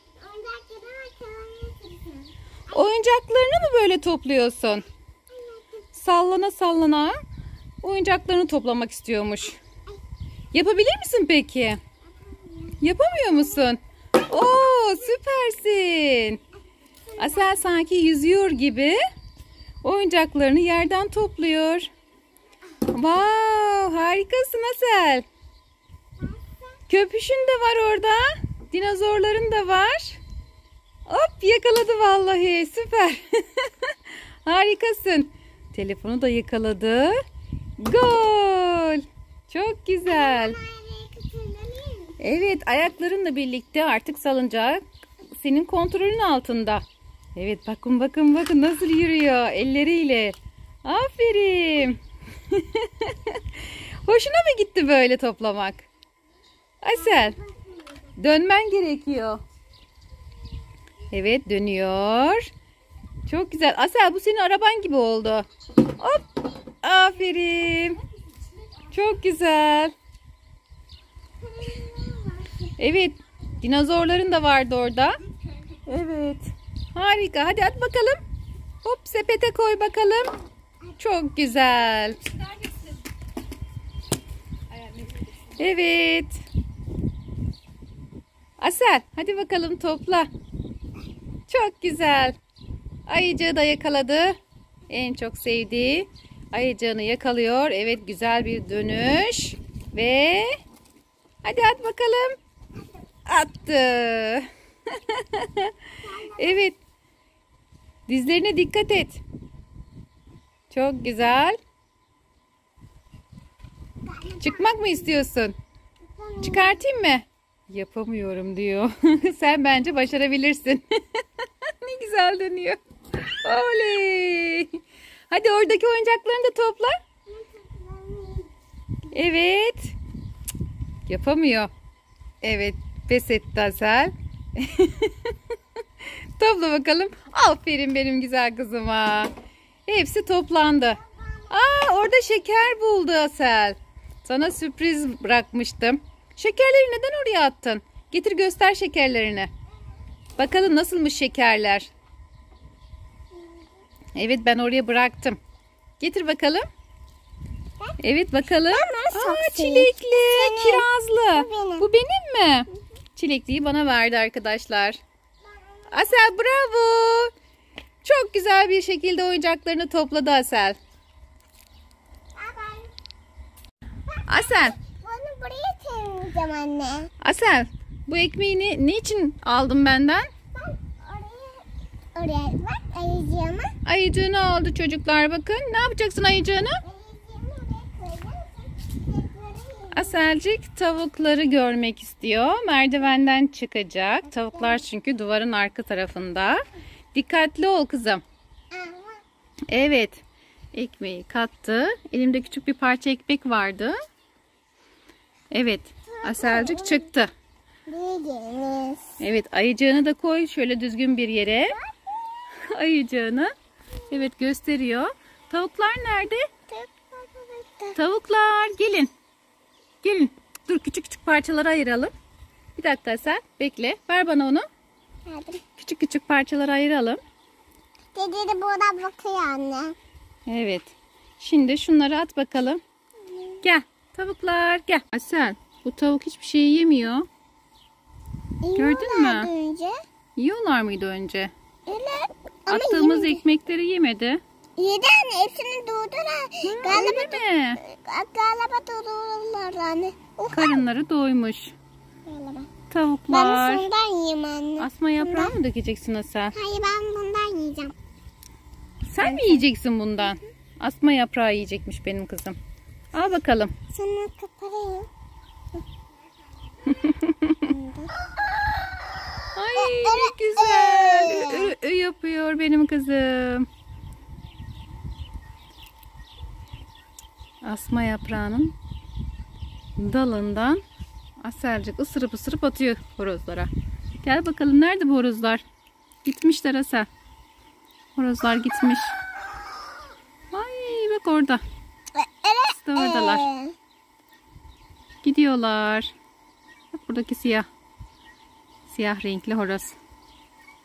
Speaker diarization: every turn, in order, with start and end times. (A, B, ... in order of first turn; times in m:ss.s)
0:00.2-0:02.8 A
0:02.7-0:04.9 B
0:05.3-0:05.7 A
0:05.9-0:07.2 B
0:07.8-0:09.6 B
0:10.5-0:11.8 B
0:12.4-0:12.8 A
0:12.8-0:16.4 B
0:17.2-0:19.0 B
0:19.8-0:21.9 B
0:22.8-0:25.2 B
0:26.9-0:30.2 B
0:31.1-0:33.9 B
0:34.4-0:37.2 B
0:37.8-0:40.6 B
0:40.1-0:42.2 A
0:42.2-0:46.8 B
0:47.4-0:55.9 B
0:56.8-0:57.4 B
0:58.2-0:59.4 B
1:01.1-1:02.5 B
1:03.3-1:06.2 B
1:06.8-1:08.0 B
1:08.9-1:09.9 B
1:11.4-1:12.5 A
1:12.8-1:15.2 B
1:15.9-1:16.2 A
1:16.0-1:16.4 B
1:16.9-1:18.2 B
1:18.8-1:20.3 B
1:21.0-1:22.4 B
1:25.5-1:26.4 B
1:28.6-1:30.3 B
1:31.5-1:32.4 B
1:33.1-1:34.4 B
1:34.9-1:40.6 B
1:41.4-1:42.4 B
1:43.3-1:45.7 B
1:46.0-1:46.6 A
1:46.4-1:46.8 B
1:48.1-1:49.2 B
1:50.7-1:51.6 B
1:54.1-1:54.9 A
1:54.4-1:55.6 B
1:56.1-1:56.8 A
1:56.4-2:04.8 B
2:05.3-2:07.0 B
2:07.3-2:08.5 A
2:09.1-2:10.0 B
2:11.1-2:11.7 B
2:12.4-2:15.3 B
2:16.0-2:19.3 B
2:19.9-2:29.5 B
2:30.4-2:31.9 B
2:34.2-2:35.4 B
2:36.0-2:36.6 B
2:38.0-2:45.0 B
2:38.7-2:41.9 A
2:45.9-2:47.3 B
2:48.0-2:50.8 B
2:52.4-2:52.9 A
2:54.2-2:57.1 A
2:54.3-2:54.8 B
2:57.2-3:00.3 B
3:00.6-3:03.7 A
3:03.8-3:06.8 B
3:06.8-3:10.2 A
3:09.9-3:16.6 B
3:17.1-3:18.2 B
3:18.7-3:19.2 A
3:19.7-3:20.2 B
3:20.7-3:24.0 B
3:25.5-3:27.3 B
3:26.1-3:27.1 A
3:27.9-3:29.2 A
3:29.2-3:31.8 B
3:32.6-3:33.5 B
3:34.1-3:36.5 B
3:36.7-3:38.0 A
3:37.9-3:39.1 B
3:40.0-3:42.1 B
3:42.8-3:44.7 B
3:45.3-3:45.6 A
3:45.8-3:47.2 B
3:48.1-3:50.0 A
3:50.5-3:52.8 B
3:53.6-3:57.3 B
3:58.6-4:00.0 A
3:58.8-3:59.5 B
4:00.4-4:01.5 B
4:01.9-4:03.4 A
4:02.7-4:04.4 B
4:04.8-4:10.8 A
4:06.6-4:07.8 B
4:10.5-4:11.7 B
4:12.3-4:12.7 A
4:12.9-4:13.9 B
4:13.3-4:15.6 A
4:14.8-4:16.6 B
4:16.5-4:18.0 A
4:19.1-4:22.6 B
4:19.2-4:19.6 A
4:23.1-4:23.7 B
4:23.9-4:25.1 A
4:26.9-4:27.6 B
4:27.6-4:28.1 A
4:29.6-4:33.7 B
4:29.8-4:31.7 A
4:37.6-4:38.7 B
4:40.0-4:40.8 B
4:41.4-4:43.7 B
4:44.2-4:45.6 B
4:46.2-4:47.1 B
4:48.2-4:49.2 B
4:50.5-4:51.6 B
4:52.2-4:53.7 A
4:52.7-4:53.5 B
4:55.2-4:56.1 B
4:56.9-4:57.7 B
4:58.9-5:00.0 B